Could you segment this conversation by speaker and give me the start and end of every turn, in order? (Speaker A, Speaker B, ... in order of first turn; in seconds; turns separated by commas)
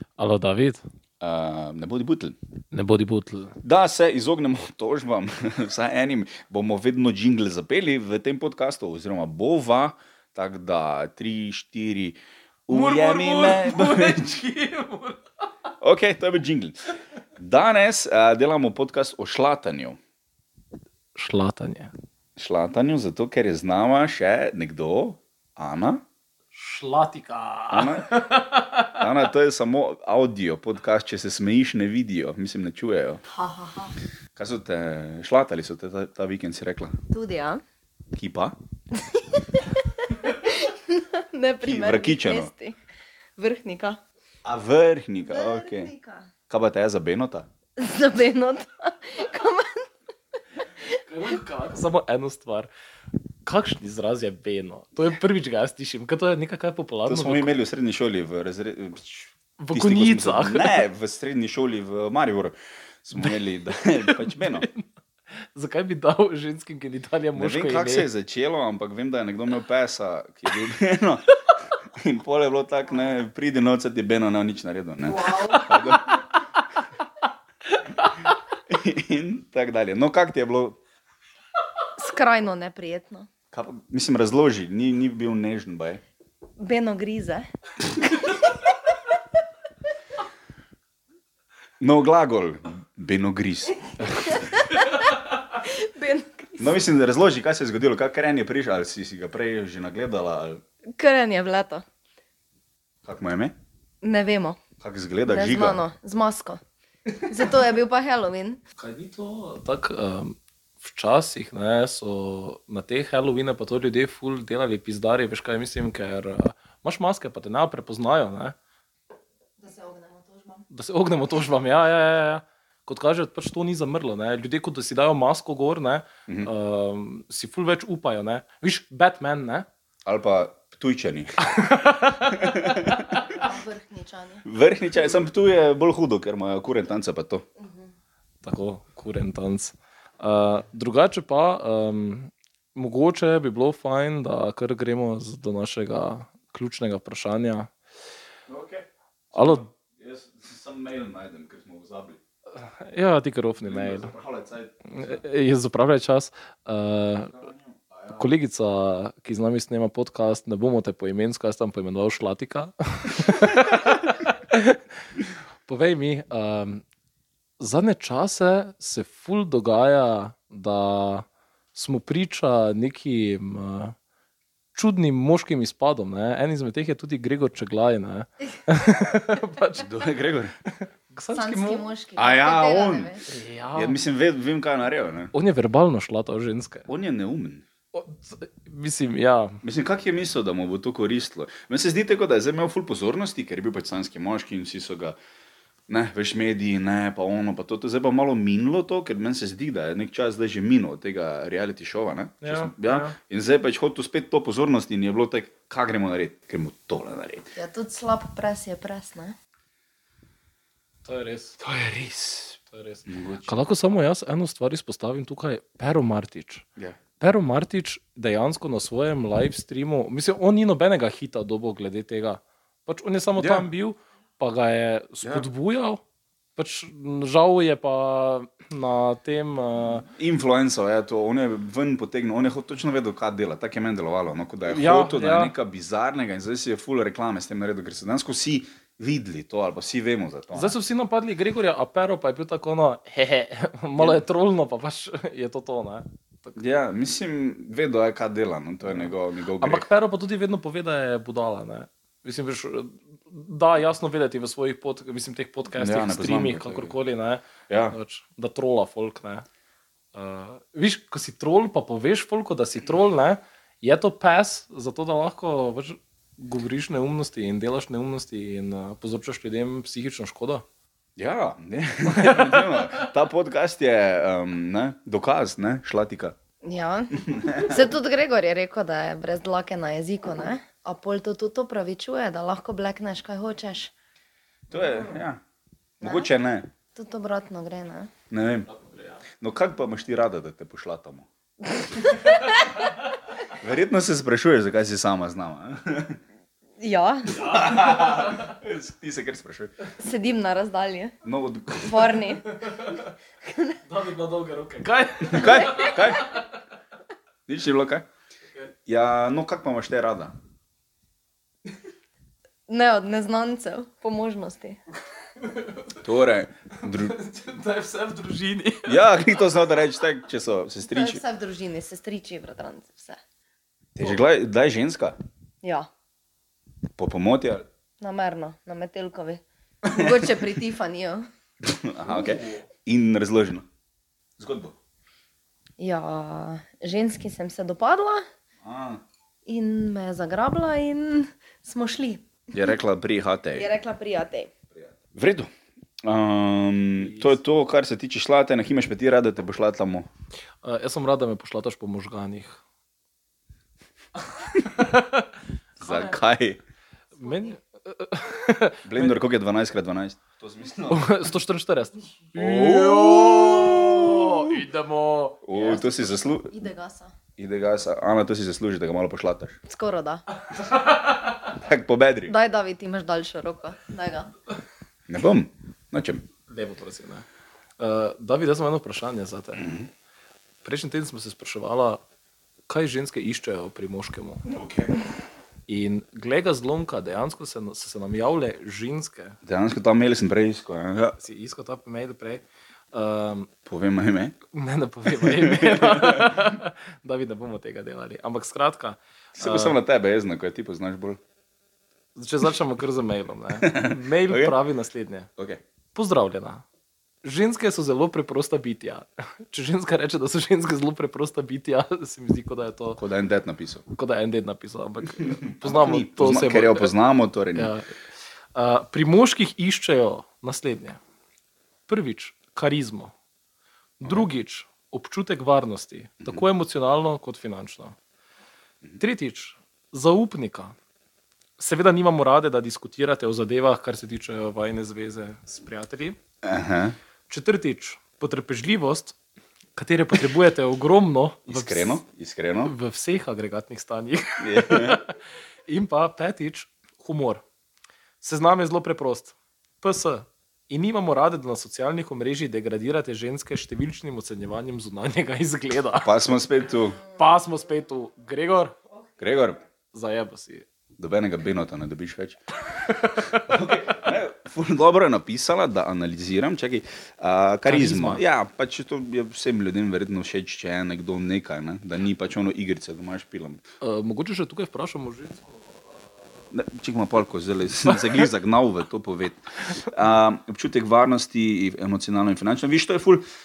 Speaker A: 0.2-0.8, Speaker B: 1.2-2.4, Speaker A: 2.7-3.6, Speaker B: 3.6-14.3, Speaker A: 12.7-15.2, Speaker B: 15.8-16.8, Speaker B: 17.4-20.0, Speaker A: 21.1-21.9, Speaker B: 22.4-26.0, Speaker A: 26.5-29.0, Speaker B: 27.7-28.1, Speaker B: 29.0-33.2, Speaker C: 33.3-34.0, Speaker B: 34.4-37.0, Speaker C: 37.1-37.6, Speaker B: 38.1-38.6, Speaker C: 38.9-42.8, Speaker B: 41.6-42.5, Speaker C: 43.4-44.0, Speaker B: 44.5-45.9, Speaker C: 45.3-46.3, Speaker B: 46.5-47.5, Speaker C: 47.8-49.9, Speaker A: 51.0-52.7, Speaker A: 53.4-57.5, Speaker B: 57.1-64.7, Speaker A: 59.6-60.9, Speaker A: 64.0-64.9, Speaker A: 65.5-68.1, Speaker B: 67.3-71.2, Speaker B: 71.9-76.2, Speaker A: 75.3-76.0, Speaker B: 78.7-80.8, Speaker C: 82.0-83.3, Speaker B: 83.5-86.0, Speaker C: 86.6-87.5, Speaker B: 91.8-94.5, Speaker C: 94.1-96.8, Speaker B: 96.6-100.6, Speaker C: 101.0-101.8, Speaker B: 103.0-103.5, Speaker C: 104.0-104.6, Speaker B: 104.8-105.8, Speaker C: 105.3-106.6, Speaker C: 107.1-108.6, Speaker A: 108.8-118.6, Speaker C: 119.6-120.7, Speaker A: 120.7-129.7, Speaker B: 130.1-131.3, Speaker A: 131.4-132.9, Speaker B: 132.2-133.2, Speaker C: 133.2-134.4, Speaker B: 134.4-137.5, Speaker C: 137.6-137.9, Speaker A: 138.4-147.7, Speaker B: 148.5-152.2, Speaker A: 149.3-149.7, Speaker A: 152.6-154.1, Speaker B: 153.6-155.2, Speaker A: 154.9-157.4, Speaker B: 157.3-158.2, Speaker A: 158.1-164.8, Speaker A: 165.7-166.8, Speaker A: 167.6-174.0, Speaker A: 174.8-179.9, Speaker B: 179.8-180.6, Speaker A: 180.7-181.9, Speaker C: 181.3-183.2, Speaker B: 182.2-183.2, Speaker A: 183.3-184.0, Speaker B: 183.7-185.3, Speaker A: 185.3-186.9, Speaker B: 186.9-187.7, Speaker A: 187.9-189.6, Speaker B: 189.6-195.2, Speaker B: 195.9-207.5, Speaker A: 202.4-203.2, Speaker C: 207.6-209.3, Speaker A: 211.1-211.6, Speaker B: 211.6-213.6, Speaker A: 212.7-216.7, Speaker A: 217.2-226.0, Speaker B: 223.4-223.7, Speaker B: 225.2-225.5, Speaker A: 226.6-230.1, Speaker B: 229.8-240.7, Speaker A: 234.7-235.5, Speaker A: 240.5-246.6, Speaker B: 246.6-249.9, Speaker A: 248.9-259.4, Speaker B: 255.8-256.9, Speaker B: 257.7-258.0, Speaker A: 260.1-270.6, Speaker B: 271.2-276.3, Speaker A: 272.1-272.8, Speaker C: 276.6-283.9, Speaker B: 277.2-277.9, Speaker B: 284.7-285.4, Speaker B: 286.0-286.7, Speaker C: 286.0-286.3, Speaker C: 286.9-288.1, Speaker B: 288.3-288.7, Speaker A: 288.7-289.2, Speaker B: 289.4-291.3, Speaker C: 292.1-292.4, Speaker B: 293.5-296.2, Speaker C: 296.8-297.6, Speaker B: 297.3-299.7, Speaker C: 300.0-301.1, Speaker B: 301.2-302.2, Speaker C: 301.8-302.6, Speaker A: 302.6-303.0, Speaker C: 303.4-303.8, Speaker A: 303.9-306.2, Speaker B: 305.2-306.3, Speaker C: 305.4-305.9, Speaker B: 307.5-308.1, Speaker B: 308.9-310.3, Speaker C: 312.7-314.8, Speaker A: 315.4-316.0, Speaker B: 316.0-317.1, Speaker A: 316.8-319.0, Speaker B: 318.9-321.2, Speaker C: 320.8-323.2, Speaker B: 323.9-325.2, Speaker C: 325.6-325.9, Speaker B: 326.9-327.6, Speaker C: 328.0-331.2, Speaker B: 329.9-330.3, Speaker B: 331.6-333.6, Speaker A: 332.1-332.6, Speaker B: 334.4-334.8, Speaker C: 335.8-338.2, Speaker B: 338.6-339.0, Speaker C: 339.4-342.3, Speaker B: 342.5-343.7, Speaker C: 343.5-344.5, Speaker B: 344.7-345.5, Speaker B: 346.0-350.1, Speaker A: 347.0-347.4, Speaker A: 350.6-352.6, Speaker A: 354.5-355.3, Speaker B: 355.8-356.6, Speaker A: 355.8-356.1, Speaker A: 357.1-359.2, Speaker B: 358.8-361.2, Speaker A: 360.9-365.5, Speaker B: 362.3-364.5, Speaker B: 365.4-366.5, Speaker C: 365.6-367.1, Speaker B: 367.4-369.6, Speaker C: 369.7-370.2, Speaker A: 370.7-371.0, Speaker B: 371.5-372.3, Speaker C: 372.3-374.3, Speaker B: 375.1-376.2, Speaker A: 376.5-377.2, Speaker A: 377.8-379.7, Speaker B: 379.6-379.9, Speaker A: 380.6-382.0, Speaker A: 382.7-384.4, Speaker B: 384.5-385.0, Speaker A: 385.7-389.4, Speaker B: 389.4-391.2, Speaker A: 391.2-393.5, Speaker B: 393.6-394.4, Speaker A: 394.5-399.8, Speaker B: 395.1-396.5, Speaker B: 399.4-401.2, Speaker A: 402.1-405.3, Speaker B: 403.6-404.6, Speaker B: 405.4-405.6, Speaker A: 405.9-406.6, Speaker A: 407.2-413.0, Speaker B: 413.0-413.8, Speaker A: 413.9-416.9, Speaker B: 415.2-417.7, Speaker A: 417.5-417.9, Speaker A: 418.5-421.0, Speaker A: 421.9-423.1, Speaker A: 424.0-427.9, Speaker A: 429.0-430.7, Speaker A: 431.6-436.2, Speaker B: 436.4-436.9, Speaker A: 437.3-439.1, Speaker A: 439.8-442.0, Speaker B: 441.5-442.7, Speaker A: 442.6-447.4, Speaker B: 444.4-445.0, Speaker A: 448.2-456.1, Speaker B: 456.0-457.0, Speaker A: 457.1-458.7, Speaker B: 459.2-459.6, Speaker A: 459.9-460.6, Speaker B: 461.0-462.4, Speaker A: 462.8-463.7, Speaker B: 463.3-473.6, Speaker A: 467.6-468.2, Speaker A: 473.8-475.8, Speaker B: 476.5-483.2